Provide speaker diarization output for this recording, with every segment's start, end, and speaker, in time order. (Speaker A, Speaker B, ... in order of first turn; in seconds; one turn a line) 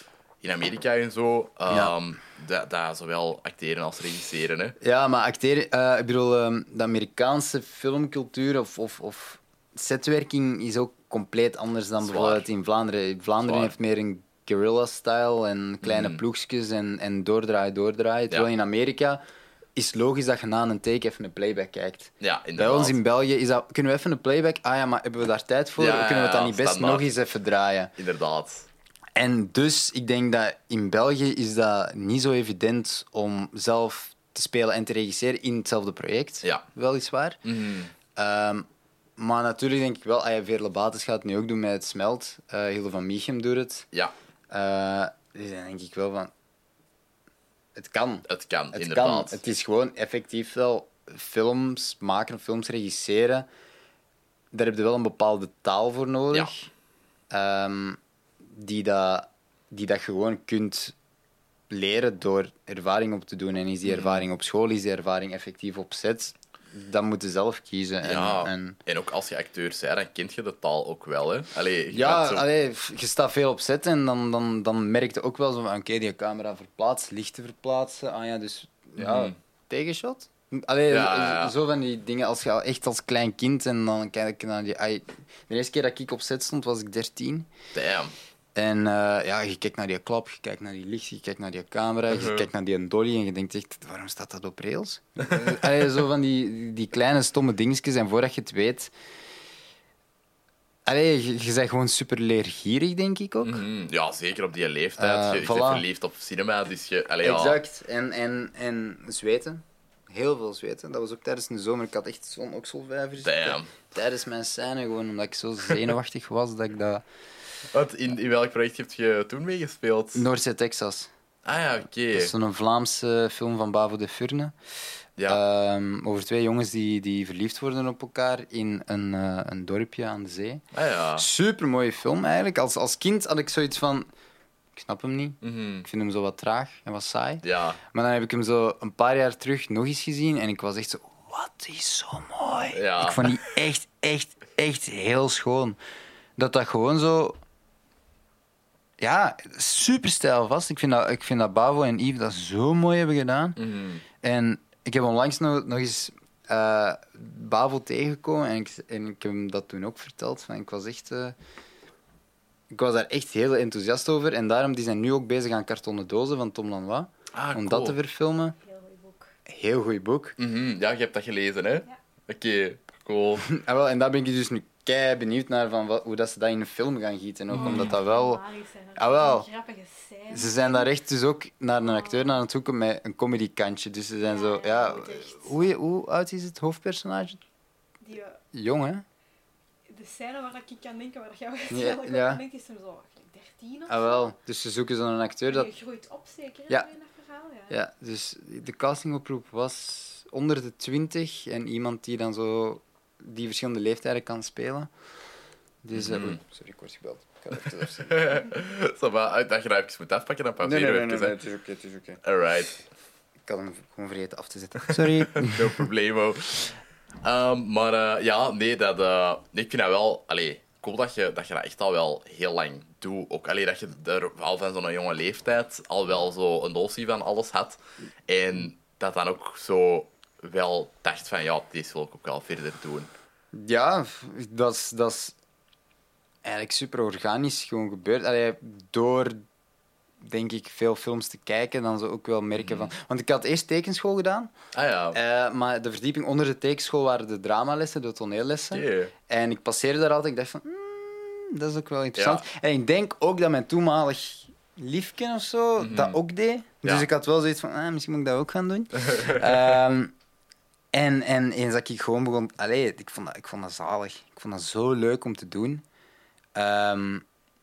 Speaker A: 0.4-4.7
Speaker B: 4.8-19.2
Speaker A: 12.0-12.4
Speaker A: 13.4-13.7
Speaker A: 15.8-16.2
Speaker B: 19.8-27.9
Speaker A: 22.2-23.0
Speaker A: 25.8-27.1
Speaker A: 28.0-28.7
Speaker B: 29.1-37.4
Speaker A: 37.4-37.9
Speaker B: 38.1-38.7
Speaker B: 39.2-43.9
Speaker B: 44.5-46.3
Speaker B: 47.8-53.5
Speaker A: 48.3-49.4
Speaker B: 54.5-56.7
Speaker B: 57.3-58.0
Speaker B: 58.5-60.9
Speaker B: 61.7-68.8
Speaker A: 63.9-64.2
Speaker A: 68.0-72.4
Speaker B: 71.9-87.5
Speaker A: 79.0-79.3
Speaker A: 80.9-81.5
Speaker A: 87.7-88.1
Speaker B: 88.5-98.9
Speaker A: 92.1-92.5
Speaker A: 95.3-95.6
Speaker B: 100.8-103.6
Speaker A: 103.4-107.6
Speaker B: 105.0-105.8
Speaker B: 107.2-117.0
Speaker A: 113.2-113.7
Speaker A: 117.7-120.2
Speaker B: 120.1-121.1
Speaker A: 121.4-122.3
Speaker B: 122.1-124.5
Speaker B: 125.3-130.6
Speaker A: 130.7-131.3
Speaker B: 131.2-134.1
Speaker B: 134.7-145.8
Speaker A: 135.4-135.9
Speaker A: 137.4-137.8
Speaker A: 142.7-143.3
Speaker B: 146.4-147.4
Speaker B: 149.0-153.6
Speaker A: 153.6-154.0
Speaker B: 154.2-161.3
Speaker B: 162.7-168.5
Speaker A: 167.3-168.0
Speaker C: 168.6-169.3
Speaker B: 169.5-170.4
Speaker A: 170.4-173.4
Speaker B: 173.4-178.4
Speaker C: 177.5-180.9
Speaker A: 177.5-177.9
Speaker B: 179.0-179.5
Speaker B: 180.3-187.4
Speaker C: 181.8-182.4
Speaker C: 184.2-185.7
Speaker C: 188.0-188.4
Speaker B: 188.5-189.0
Speaker C: 189.9-194.3
Speaker B: 191.7-192.4
Speaker B: 193.9-195.7
Speaker C: 195.5-197.7
Speaker B: 197.7-204.9
Speaker B: 205.8-208.4
Speaker A: 205.9-206.4
Speaker A: 207.6-211.4
Speaker B: 210.6-212.2
Speaker A: 212.2-212.8
Speaker B: 213.5-215.8
Speaker A: 214.9-233.1
Speaker B: 233.5-235.3
Speaker B: 236.4-239.4
Speaker B: 240.2-244.5
Speaker A: 242.6-242.9
Speaker A: 244.7-245.2
Speaker B: 245.1-260.1
Speaker A: 248.7-249.1
Speaker A: 252.2-252.4
Speaker A: 255.8-256.2
Speaker A: 259.0-259.8
Speaker B: 260.9-265.8
Speaker B: 266.6-267.2